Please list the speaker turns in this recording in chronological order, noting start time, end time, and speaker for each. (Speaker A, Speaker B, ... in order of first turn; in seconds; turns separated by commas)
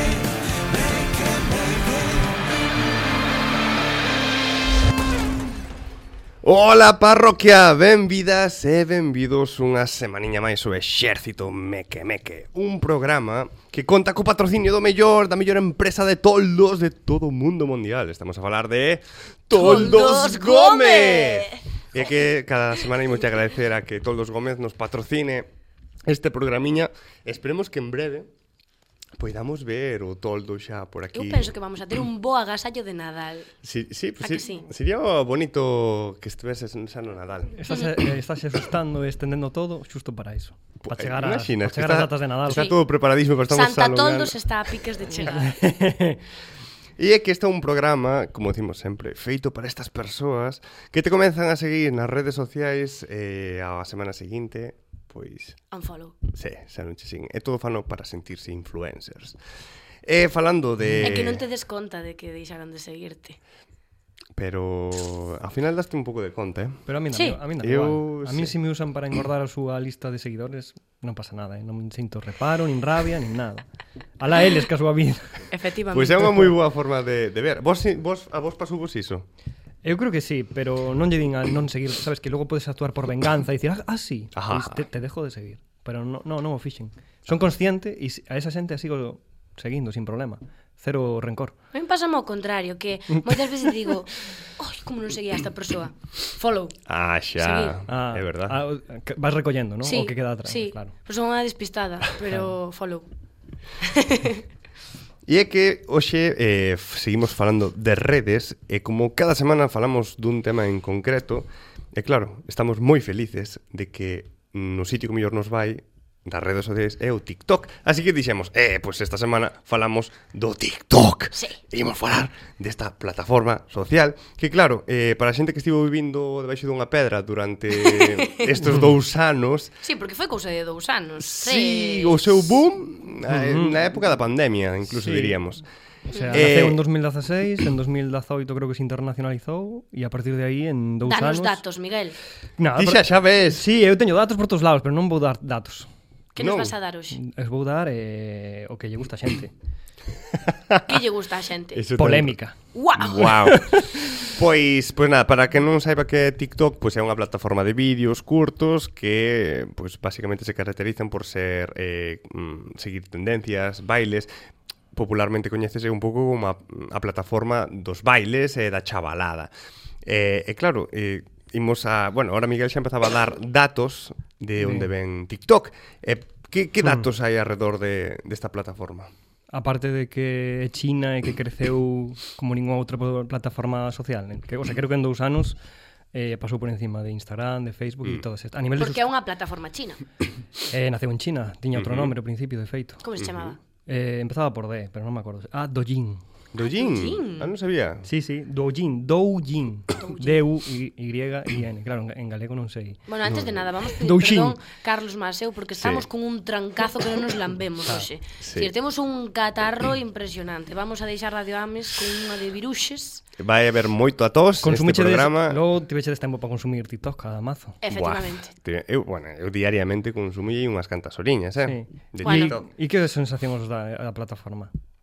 Speaker A: 6.4-25.5, Speaker B: 19.6-21.6, Speaker A: 26.1-28.3, Speaker A: 29.2-31.5, Speaker B: 31.1-33.5, Speaker A: 33.6-37.6, Speaker B: 34.2-34.7, Speaker C: 37.6-42.7, Speaker A: 40.8-44.4, Speaker B: 42.5-42.8, Speaker B: 43.5-45.6, Speaker C: 45.4-46.2, Speaker A: 47.0-55.6, Speaker B: 55.7-56.2, Speaker A: 56.3-59.4, Speaker A: 60.0-61.4, Speaker B: 61.0-63.4, Speaker A: 64.3-66.9, Speaker C: 66.9-73.6, Speaker A: 67.6-68.5, Speaker C: 74.2-75.4, Speaker B: 75.5-76.5, Speaker A: 75.9-79.3, Speaker C: 79.8-91.5, Speaker A: 84.3-84.8, Speaker B: 91.7-96.8, Speaker A: 96.9-98.6, Speaker B: 97.4-97.8, Speaker C: 97.9-100.9, Speaker B: 99.8-103.1, Speaker B: 103.8-104.4, Speaker A: 105.3-129.7, Speaker B: 127.8-128.5, Speaker B: 129.8-132.5, Speaker A: 131.2-135.6, Speaker C: 133.3-133.8, Speaker C: 134.9-135.4, Speaker B: 136.1-136.4, Speaker C: 136.1-141.6, Speaker A: 136.3-136.8, Speaker B: 141.1-142.2, Speaker C: 142.6-145.9, Speaker A: 142.7-143.7, Speaker B: 146.3-147.2, Speaker A: 146.4-146.7, Speaker C: 147.1-149.5, Speaker A: 150.5-151.0, Speaker B: 150.8-151.8, Speaker A: 151.7-152.4, Speaker C: 152.0-152.6, Speaker B: 152.8-153.3, Speaker A: 153.0-164.3, Speaker C: 153.5-154.3, Speaker A: 164.9-169.5, Speaker A: 170.1-179.1, Speaker C: 174.6-174.9, Speaker C: 176.8-177.1, Speaker C: 179.5-185.6, Speaker C: 186.1-189.1, Speaker B: 188.8-190.0, Speaker C: 190.7-193.0, Speaker A: 191.8-192.1, Speaker B: 193.0-193.6, Speaker A: 193.2-193.5, Speaker C: 193.9-196.2, Speaker A: 196.5-198.1, Speaker B: 196.6-197.5, Speaker C: 198.1-203.0, Speaker B: 200.0-200.4, Speaker B: 203.1-213.2, Speaker C: 204.0-204.6, Speaker A: 205.8-206.1, Speaker A: 208.4-208.7, Speaker A: 213.4-215.6, Speaker C: 214.6-217.8, Speaker B: 217.8-218.5, Speaker A: 217.9-222.7, Speaker C: 221.6-224.7, Speaker B: 222.2-222.6